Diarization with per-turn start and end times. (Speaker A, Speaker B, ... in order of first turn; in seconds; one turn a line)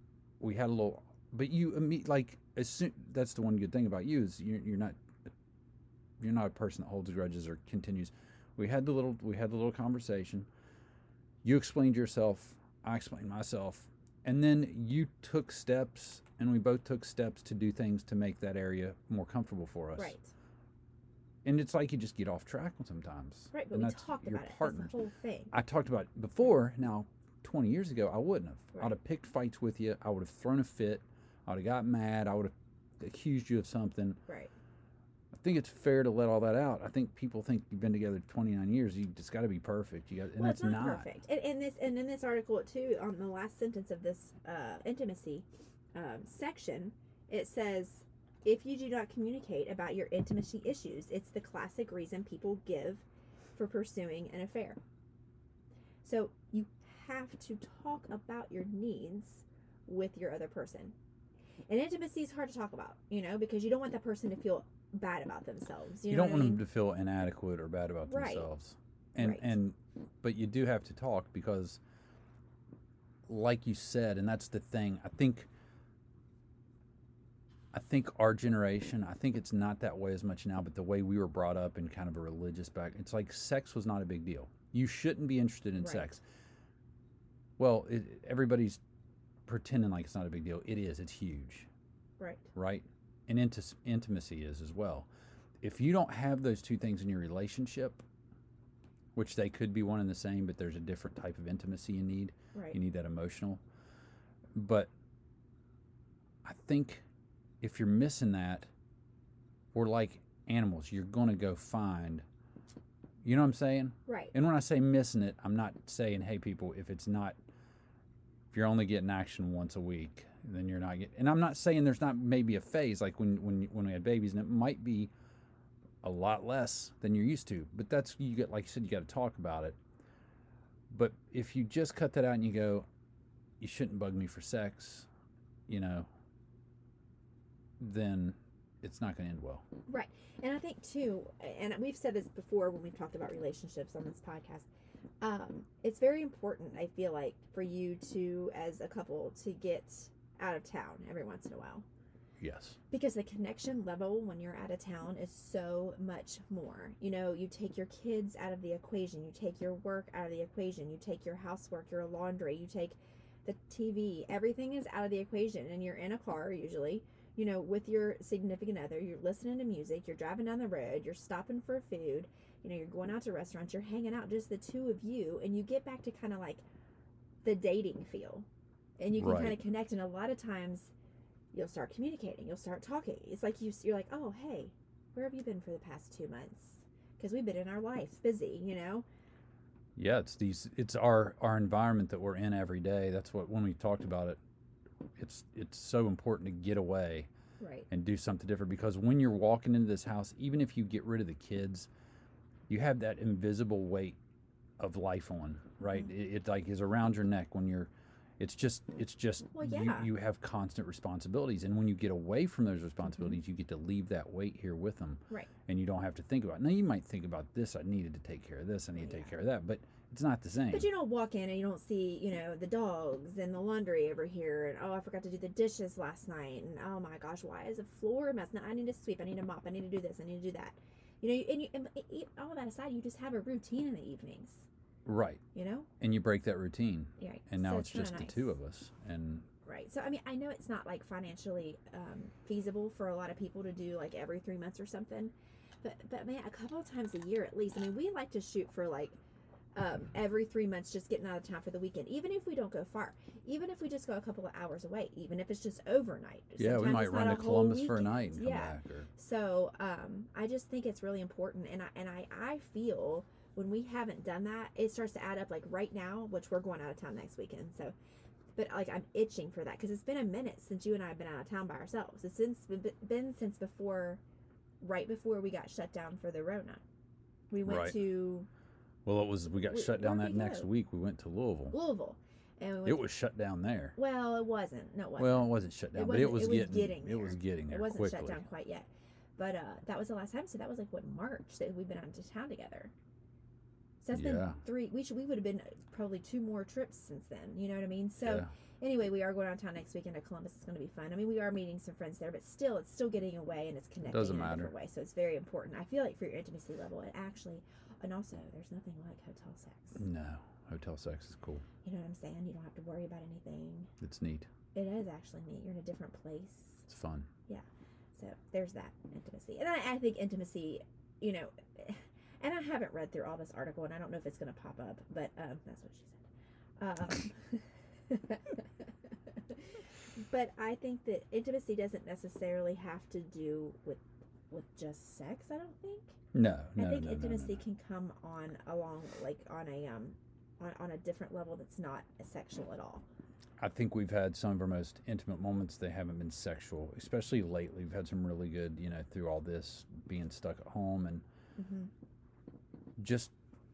Speaker A: 0.4-5.3
Speaker A: 6.2-10.5
Speaker A: 11.4-20.1
Speaker B: 20.0-20.3
Speaker A: 21.4-24.9
Speaker B: 23.5-25.5
Speaker A: 25.5-34.2
Speaker A: 35.3-41.1
Speaker B: 40.4-54.8
Speaker B: 56.0-61.0
Speaker B: 61.7-66.6
Speaker A: 66.1-71.8
Speaker B: 68.1-68.5
Speaker B: 69.2-69.5
Speaker A: 73.3-75.5
Speaker A: 77.7-86.2
Speaker B: 85.8-86.1
Speaker A: 87.6-88.8
Speaker A: 89.5-91.7
Speaker B: 92.2-92.5
Speaker A: 92.5-95.1
Speaker A: 95.6-98.0
Speaker A: 99.2-103.6
Speaker A: 104.5-104.9
Speaker A: 106.5-107.0
Speaker A: 107.6-108.7
Speaker A: 109.7-112.2
Speaker A: 113.2-117.4
Speaker B: 114.1-114.3
Speaker A: 118.5-125.1
Speaker A: 126.0-129.8
Speaker A: 130.9-132.9
Speaker A: 133.6-135.1
Speaker A: 135.7-136.1
Speaker A: 137.8-139.7
Speaker B: 139.9-144.7
Speaker B: 145.2-151.8
Speaker A: 152.4-152.8
Speaker B: 152.9-176.6
Speaker B: 177.4-178.5
Speaker B: 179.0-180.9
Speaker A: 179.2-179.6
Speaker B: 181.5-189.1
Speaker A: 190.0-194.4
Speaker A: 195.2-197.3
Speaker B: 197.6-197.9
Speaker A: 197.9-201.9
Speaker A: 202.7-204.2
Speaker A: 204.8-220.9
Speaker B: 209.5-210.1
Speaker B: 219.0-219.3
Speaker B: 220.7-234.7
Speaker A: 235.1-235.4
Speaker B: 235.5-235.9
Speaker A: 236.0-239.5
Speaker B: 237.2-238.5
Speaker B: 239.7-249.2
Speaker B: 249.8-267.9
Speaker A: 256.6-259.1
Speaker B: 268.6-274.2
Speaker B: 274.8-276.8
Speaker B: 277.5-278.5
Speaker A: 277.6-278.0
Speaker A: 279.1-281.8
Speaker B: 279.6-280.7
Speaker B: 281.7-283.1
Speaker A: 282.9-284.0
Speaker B: 284.0-292.9
Speaker A: 285.2-288.4
Speaker B: 294.0-310.0
Speaker A: 294.1-294.6
Speaker A: 298.2-298.5
Speaker A: 304.1-304.7
Speaker A: 309.9-311.6
Speaker B: 311.8-313.9
Speaker A: 314.0-314.5
Speaker B: 314.7-316.9
Speaker A: 316.9-317.3
Speaker B: 318.1-326.3
Speaker B: 326.8-328.9
Speaker B: 329.5-336.2
Speaker A: 336.3-337.6
Speaker B: 336.8-343.0
Speaker A: 343.6-351.2
Speaker B: 351.6-351.9
Speaker A: 353.0-353.3